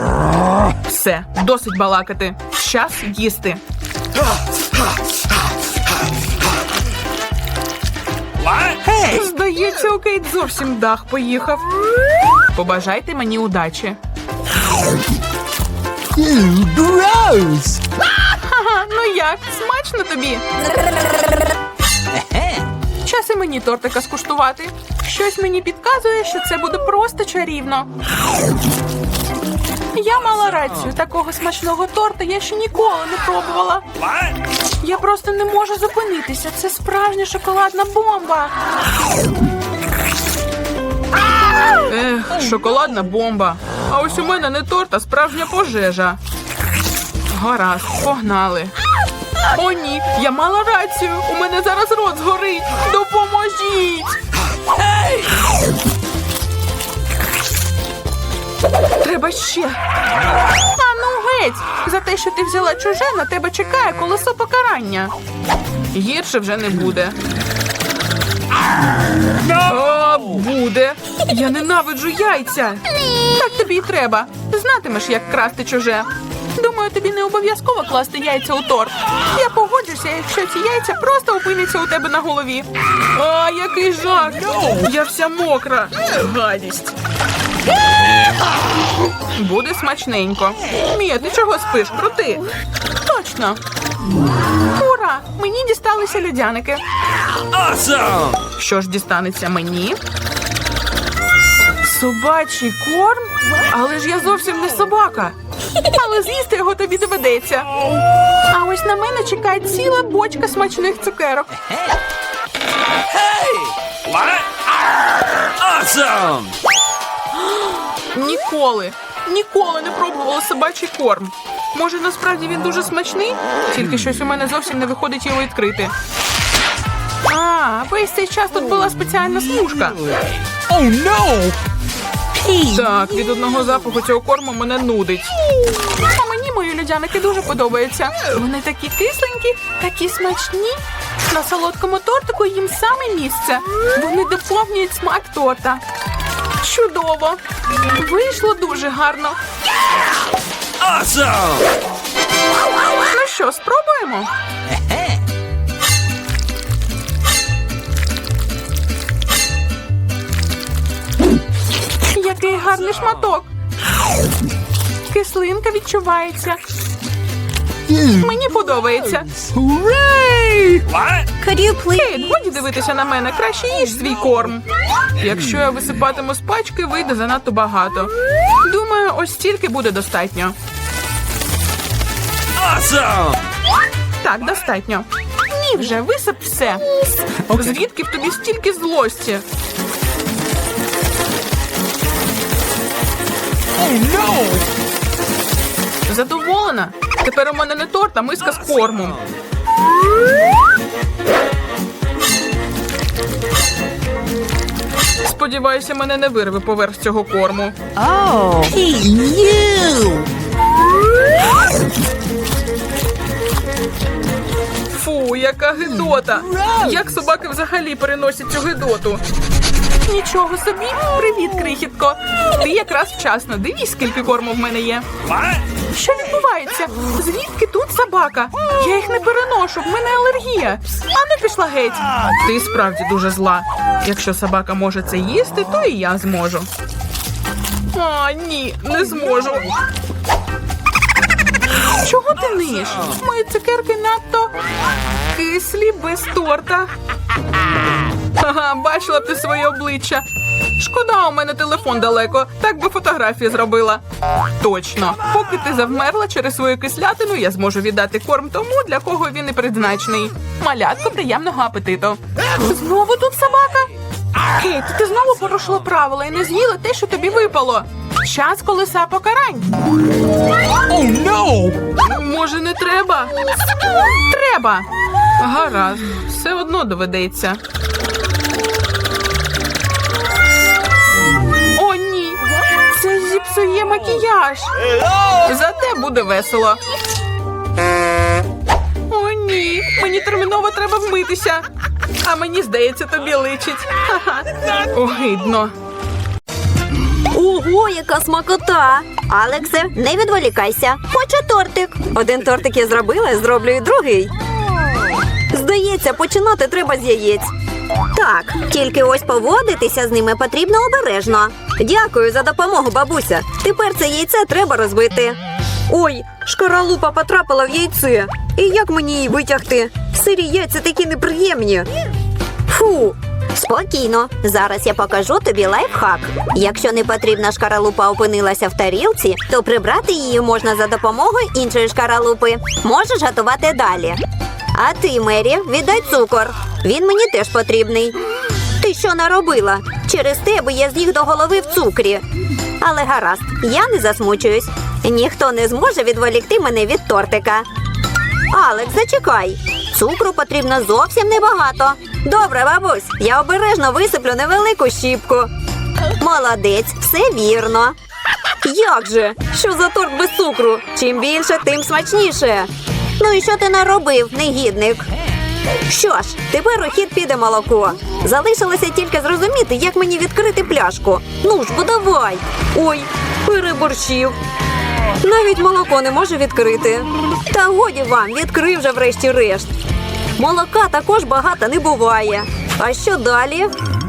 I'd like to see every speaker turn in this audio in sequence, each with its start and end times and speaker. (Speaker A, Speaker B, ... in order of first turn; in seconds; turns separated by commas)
Speaker A: 0.8-3.6, Speaker B: 8.4-9.2, Speaker A: 9.1-11.6, Speaker A: 12.5-14.0, Speaker B: 16.1-17.8, Speaker A: 18.4-20.4, Speaker B: 22.1-22.6, Speaker A: 23.0-27.9, Speaker A: 29.9-33.8, Speaker B: 34.0-34.3, Speaker A: 34.8-38.5, Speaker A: 41.9-46.2, Speaker A: 47.3-48.7, Speaker A: 49.5-54.1, Speaker B: 54.8-55.3, Speaker A: 59.0-59.8, Speaker A: 60.8-65.1, Speaker A: 65.9-67.2, Speaker A: 69.6-86.9, Speaker B: 84.4-84.9, Speaker A: 89.3-92.5, Speaker A: 93.0-93.6, Speaker A: 94.7-96.8, Speaker B: 97.5-98.4, Speaker A: 98.6-100.0, Speaker A: 101.8-107.7, Speaker A: 108.5-111.5, Speaker B: 113.1-116.6, Speaker A: 118.1-125.9, Speaker A: 127.3-130.0, Speaker B: 129.8-131.6, Speaker B: 132.4-132.7, Speaker A: 132.6-135.3, Speaker A: 135.9-145.8, Speaker A: 146.6-147.4, Speaker A: 147.9-149.3, Speaker B: 150.8-151.7, Speaker A: 153.1-154.3, Speaker B: 154.7-155.2, Speaker A: 162.1-163.5, Speaker A: 165.1-166.6, Speaker B: 167.9-168.3, Speaker A: 168.2-169.3, Speaker B: 169.3-171.3, Speaker C: 171.4-172.1, Speaker A: 171.9-174.6, Speaker A: 175.2-178.1, Speaker A: 178.6-180.5, Speaker B: 182.6-183.4, Speaker A: 184.2-189.4, Speaker B: 193.8-194.7, Speaker A: 196.1-199.2, Speaker A: 205.2-207.8, Speaker B: 207.9-210.3, Speaker A: 214.9-219.2, Speaker B: 216.5-217.0, Speaker A: 220.1-225.1, Speaker B: 225.2-225.6, Speaker A: 225.9-236.7, Speaker A: 237.9-239.7, Speaker A: 242.0-244.5, Speaker A: 245.3-246.9, Speaker A: 248.4-250.2, Speaker A: 250.8-254.0, Speaker A: 254.6-263.9, Speaker A: 264.6-269.8, Speaker B: 270.9-271.8, Speaker A: 271.9-273.4, Speaker A: 274.2-277.6, Speaker A: 281.7-284.7, Speaker A: 285.4-286.8, Speaker A: 289.1-291.6, Speaker A: 292.2-295.7, Speaker C: 297.3-304.3, Speaker C: 305.5-307.5, Speaker C: 308.1-321.9, Speaker C: 322.7-334.2, Speaker C: 334.7-338.2, Speaker C: 338.8-342.2, Speaker C: 342.8-347.6, Speaker C: 348.5-355.5, Speaker C: 356.2-357.9, Speaker C: 358.6-365.1, Speaker C: 365.9-374.4, Speaker C: 375.2-379.7, Speaker C: 380.4-383.7